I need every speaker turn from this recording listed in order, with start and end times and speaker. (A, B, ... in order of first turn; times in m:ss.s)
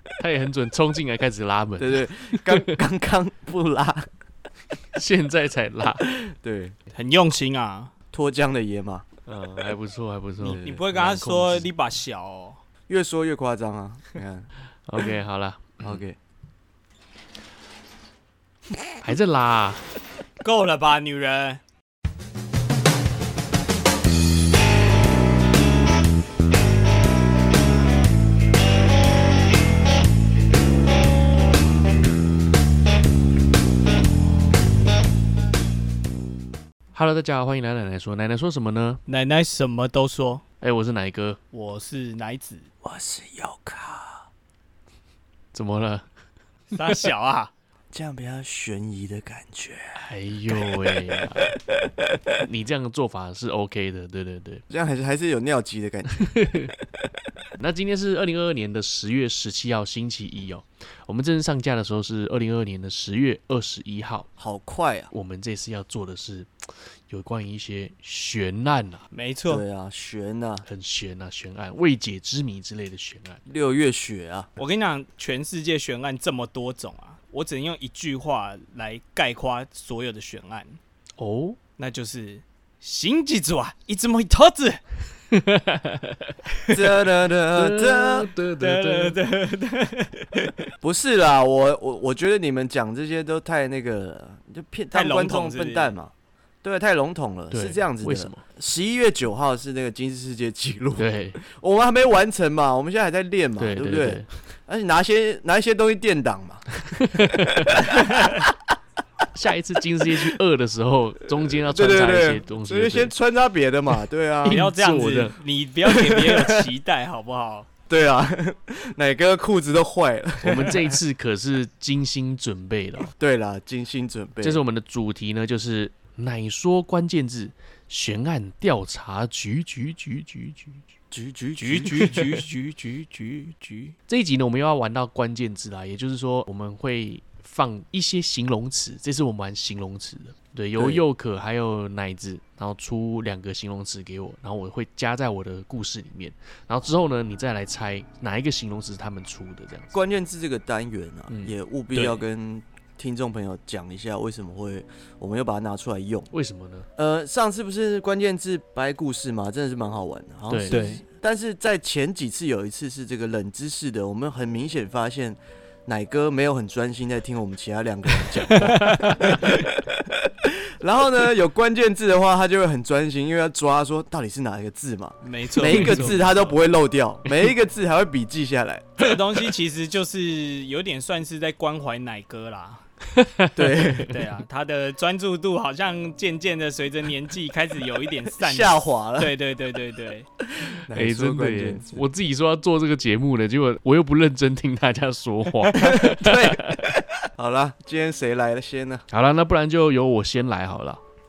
0:00.2-0:02.7 A
0:01.8-0:04.1 B
0:05.0-0:06.1 A
0:06.0-0:06.8 B
0:06.9-0:07.9 C
0:08.1-0:09.1 B
0:09.3-0:11.7 A
0:10.4-0:10.8 B
0:10.6-0:12.6 C
0:12.9-0:14.5 B
0:14.9-0:16.0 A
0:15.8-0:16.2 B
0:19.0-0:19.8 A
0:20.4-0:21.6 C
0:36.9-0:39.0 A
0:39.1-0:40.4 C
0:40.6-0:41.4 A
0:41.5-0:42.7 C
0:42.8-0:44.3 B
0:45.5-0:46.1 A
0:46.7-0:47.5 C
0:47.9-0:52.2 B
0:50.0-0:51.6 A
0:52.4-0:54.6 A
0:54.7-0:56.9 B
0:56.2-0:56.7 A
0:57.6-1:04.3 A
1:04.4-1:05.1 B
1:05.1-1:09.1 A
1:09.1-1:09.6 C
1:09.5-1:10.7 B
1:10.7-1:13.4 A
1:13.5-1:14.5 B
1:14.6-1:20.8 C
1:21.2-1:21.6 A
1:21.8-1:24.8 C
1:25.3-1:26.4 A
1:26.7-1:28.3 B
1:27.5-1:29.2 A
1:28.6-1:30.7 C
1:30.8-1:48.6 B
1:34.9-1:36.0 C
1:37.5-1:38.4 A
1:41.0-1:41.4 A
1:43.6-1:44.3 A
1:46.8-1:47.9 A
1:49.3-1:53.1 A
1:51.3-1:54.7 B
1:54.4-1:55.4 A
1:54.5-1:57.7 C
1:55.8-1:56.7 B
1:57.9-2:00.8 B
2:00.4-2:03.1 A
2:03.1-2:04.6 B
2:04.4-2:10.8 A
2:11.1-2:14.0 B
2:11.6-2:12.4 C
2:11.8-2:12.3 A
2:14.1-2:30.0 A
2:20.8-2:21.0 B
2:29.9-2:36.3 B
2:31.9-2:32.2 C
2:36.3-2:36.9 A
2:37.0-2:59.1 B
2:40.5-2:41.0 A
2:40.7-2:41.0 C
2:48.6-2:49.5 C
2:48.7-2:49.0 A
2:55.2-2:56.6 C
2:55.6-2:56.2 A
2:59.0-3:02.8 C
3:03.1-3:04.2 A
3:03.6-3:04.2 B
3:04.1-3:10.3 C
3:08.4-3:09.4 B
3:10.6-3:12.0 B
3:10.9-3:16.9 A
3:15.7-3:19.1 B
3:19.1-3:21.0 A